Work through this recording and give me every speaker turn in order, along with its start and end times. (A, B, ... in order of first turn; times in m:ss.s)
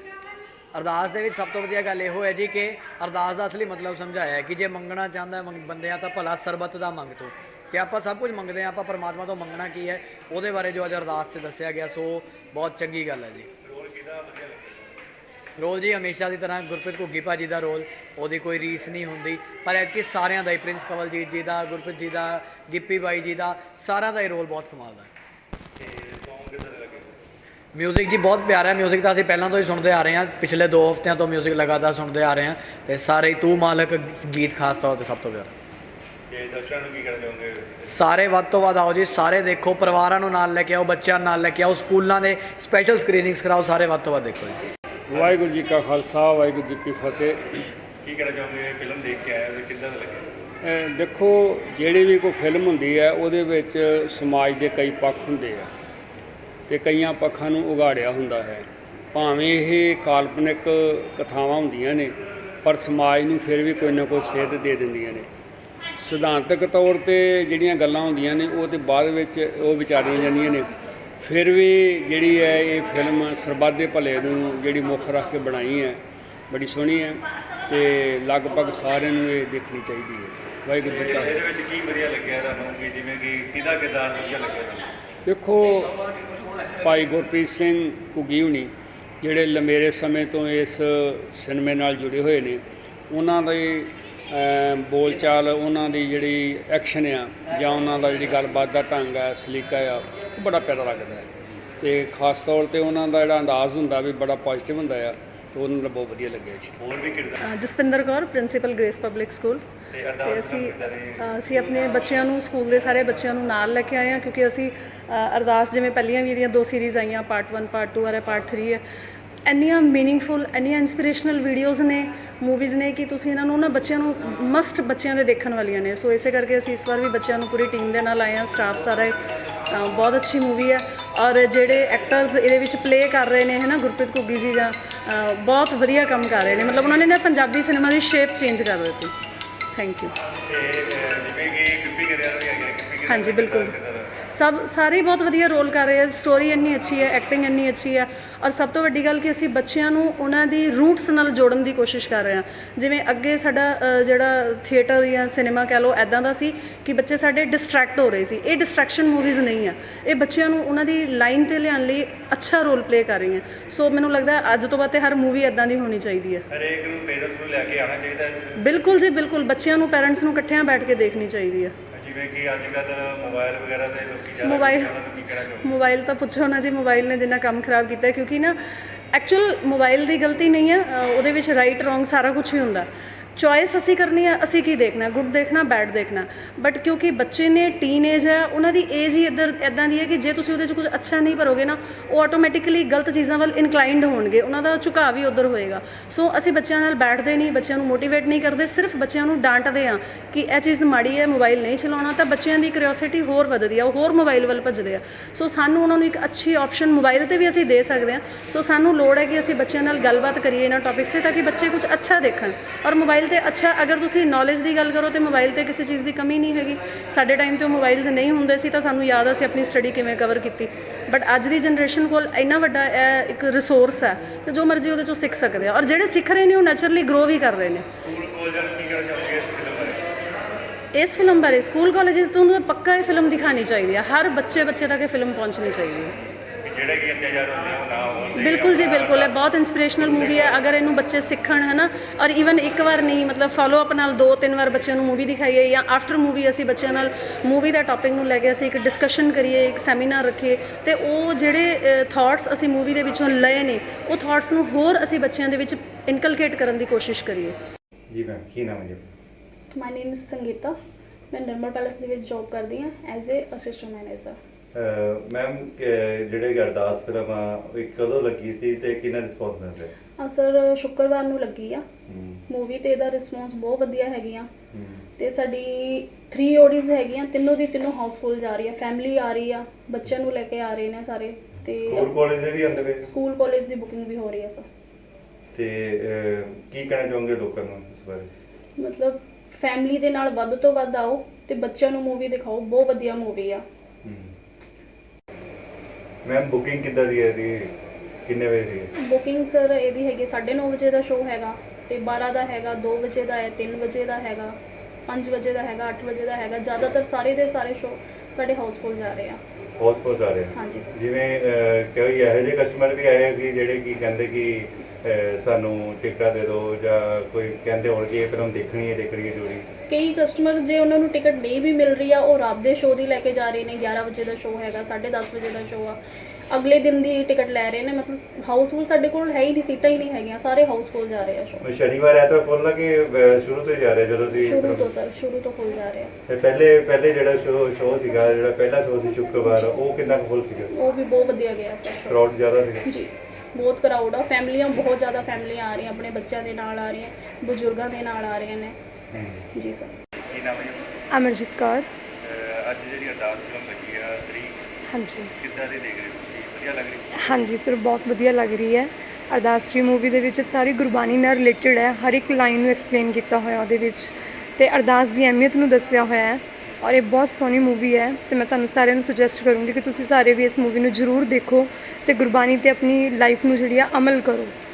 0:00.7-0:13.5 A
0:13.6-0:14.9 B
0:15.6-0:25.1 A
0:25.8-0:27.1 B
0:27.7-0:35.5 A
0:36.3-0:38.0 B
0:37.8-0:44.6 A
0:45.1-0:47.4 C
0:48.0-0:50.2 B
0:50.6-0:55.7 C
0:56.7-1:05.3 C
1:06.0-1:10.7 C
1:11.2-1:21.3 C
1:20.8-1:24.9 B
1:25.2-1:25.9 C
1:26.8-1:41.3 C
1:41.8-1:46.7 C
1:46.8-1:47.4 B
1:47.4-1:49.6 D
1:49.9-1:51.3 B
1:50.2-1:58.8 D
1:59.4-2:09.2 D
2:09.7-2:19.1 D
2:19.7-2:20.1 D
2:20.5-2:24.0 B
2:23.0-2:23.7 D
2:24.3-2:46.4 D
2:46.5-2:48.6 B
2:48.6-2:51.7 D
2:51.9-2:55.7 B
2:54.4-2:58.6 D
2:59.1-3:47.9 D
3:48.0-3:50.0 B
3:50.9-3:56.1 D
3:56.6-3:59.3 B
3:58.4-4:17.6 D
4:00.0-4:00.6 B
4:18.1-4:19.0 B
4:19.7-4:20.7 E
4:21.3-4:24.4 E
4:24.7-4:29.9 B
4:30.2-4:31.8 E
4:32.1-4:32.4 B
4:32.5-4:34.5 E
4:34.7-4:35.0 B
4:35.2-4:42.2 E
4:41.8-4:43.0 B
4:43.0-4:44.6 E
4:45.5-4:48.3 B
4:48.8-4:53.6 E
4:54.0-4:54.3 B
4:56.2-4:57.7 B
4:58.3-4:58.9 B
4:59.0-5:04.5 E
5:05.1-5:09.4 E
5:09.8-5:19.6 B
5:10.5-5:10.9 E
5:19.9-5:26.0 E
5:26.5-5:31.6 E
5:31.6-5:34.9 B
5:34.3-5:36.1 E
5:36.3-5:40.7 B
5:39.4-5:39.8 E
5:40.7-5:42.3 E
5:42.1-5:42.8 B
5:42.8-5:48.7 E
5:49.1-5:49.4 B
5:49.5-5:49.9 E
5:50.3-5:50.8 B
5:51.1-5:51.9 F
5:52.2-5:54.5 B
5:54.9-5:55.3 F
5:55.4-5:57.4 B
5:57.1-6:14.5 F